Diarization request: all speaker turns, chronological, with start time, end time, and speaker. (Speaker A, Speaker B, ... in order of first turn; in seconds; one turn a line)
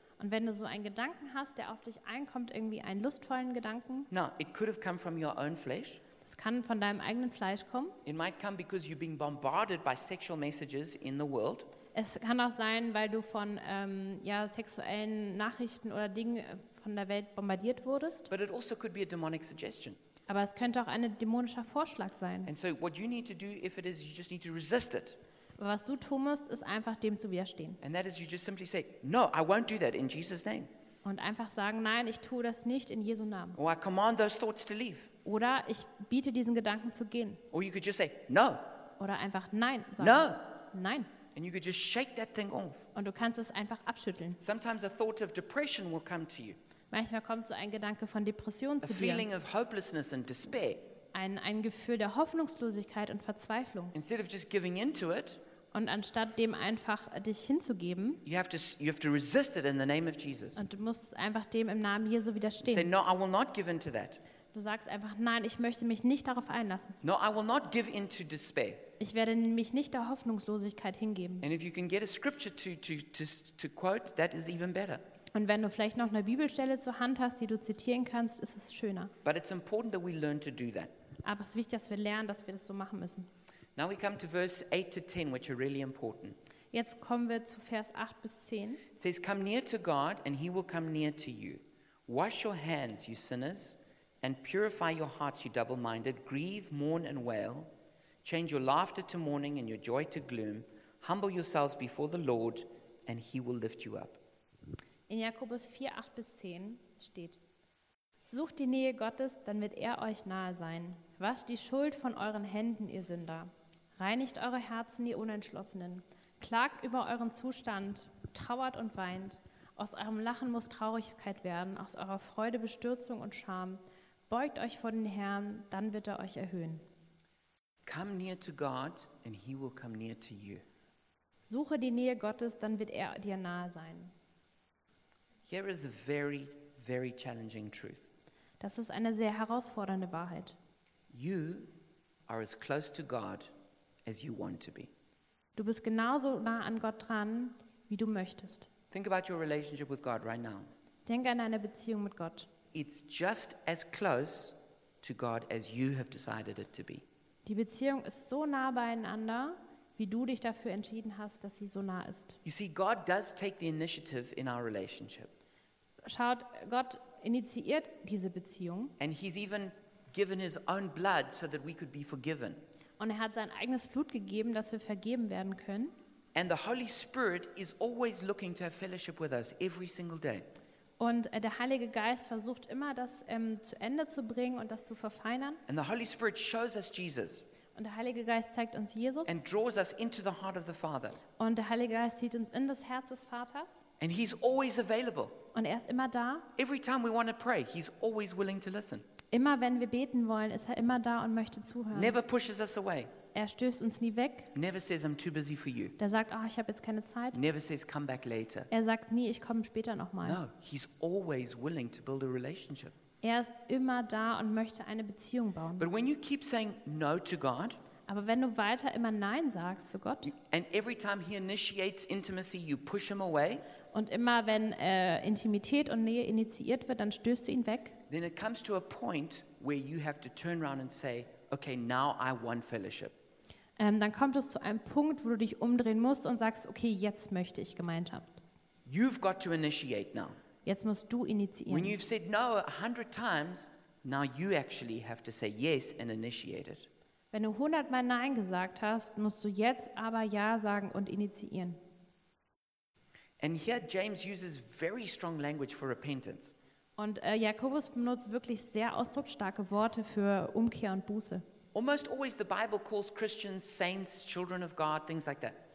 Speaker A: 0.2-4.1
Speaker B: 4.1-6.0
Speaker A: 6.2-8.0
Speaker B: 8.1-11.7
Speaker A: 11.9-18.3
Speaker B: 18.3-20.0
Speaker A: 20.3-22.5
Speaker B: 22.4-25.2
Speaker A: 25.6-27.8
Speaker B: 27.8-30.7
Speaker A: 31.0-33.6
Speaker B: 33.6-35.1
Speaker A: 35.2-37.4
Speaker B: 37.5-38.6
Speaker A: 39.0-41.1
Speaker B: 40.0-40.5
Speaker B: 41.4-42.9
Speaker A: 43.0-44.4
Speaker B: 44.4-46.6
Speaker A: 46.9-49.3
Speaker B: 48.8-50.9
Speaker A: 51.1-54.0
Speaker B: 53.9-55.4
Speaker A: 55.7-58.2
Speaker B: 58.2-60.6
Speaker A: 60.6-62.9
Speaker B: 62.6-64.2
Speaker A: 64.5-67.0
Speaker B: 67.0-68.8
Speaker A: 69.0-71.5
Speaker B: 71.4-75.0
Speaker A: 75.3-79.1
Speaker B: 79.2-80.9
Speaker A: 81.2-83.3
Speaker B: 83.8-86.4
Speaker A: 86.7-88.8
Speaker B: 89.0-97.7
Speaker B: 98.2-104.2
Speaker A: 105.1-107.4
Speaker A: 108.3-126.8
Speaker B: 127.9-130.6
Speaker A: 131.4-134.1
Speaker B: 135.4-138.1
Speaker A: 138.6-140.6
Speaker B: 141.1-141.7
Speaker B: 142.3-143.5
Speaker B: 144.1-144.9
Speaker A: 145.6-148.7
Speaker B: 148.9-150.7
Speaker A: 151.1-152.5
Speaker B: 152.7-157.0
Speaker A: 157.4-162.4
Speaker B: 162.4-165.3
Speaker A: 166.1-168.9
Speaker B: 169.0-172.6
Speaker A: 173.0-175.9
Speaker B: 176.3-180.5
Speaker A: 181.0-185.6
Speaker B: 185.7-187.4
Speaker A: 187.8-189.4
Speaker B: 189.3-191.2
Speaker A: 191.4-193.8
Speaker B: 194.0-195.4
Speaker A: 195.5-196.5
Speaker B: 196.6-199.1
Speaker A: 199.3-202.2
Speaker B: 201.9-203.1
Speaker A: 203.3-204.5
Speaker B: 204.5-206.0
Speaker A: 206.0-207.4
Speaker B: 207.3-208.7
Speaker A: 208.7-210.4
Speaker B: 210.2-212.9
Speaker A: 213.2-215.9
Speaker B: 215.8-217.8
Speaker A: 218.1-220.3
Speaker B: 220.3-223.6
Speaker A: 223.9-228.0
Speaker B: 228.1-233.2
Speaker A: 233.8-238.4
Speaker B: 238.9-240.4
Speaker A: 240.7-242.0
Speaker B: 241.7-246.9
Speaker A: 247.3-251.8
Speaker B: 253.4-256.6
Speaker A: 257.0-261.4
Speaker B: 261.7-265.6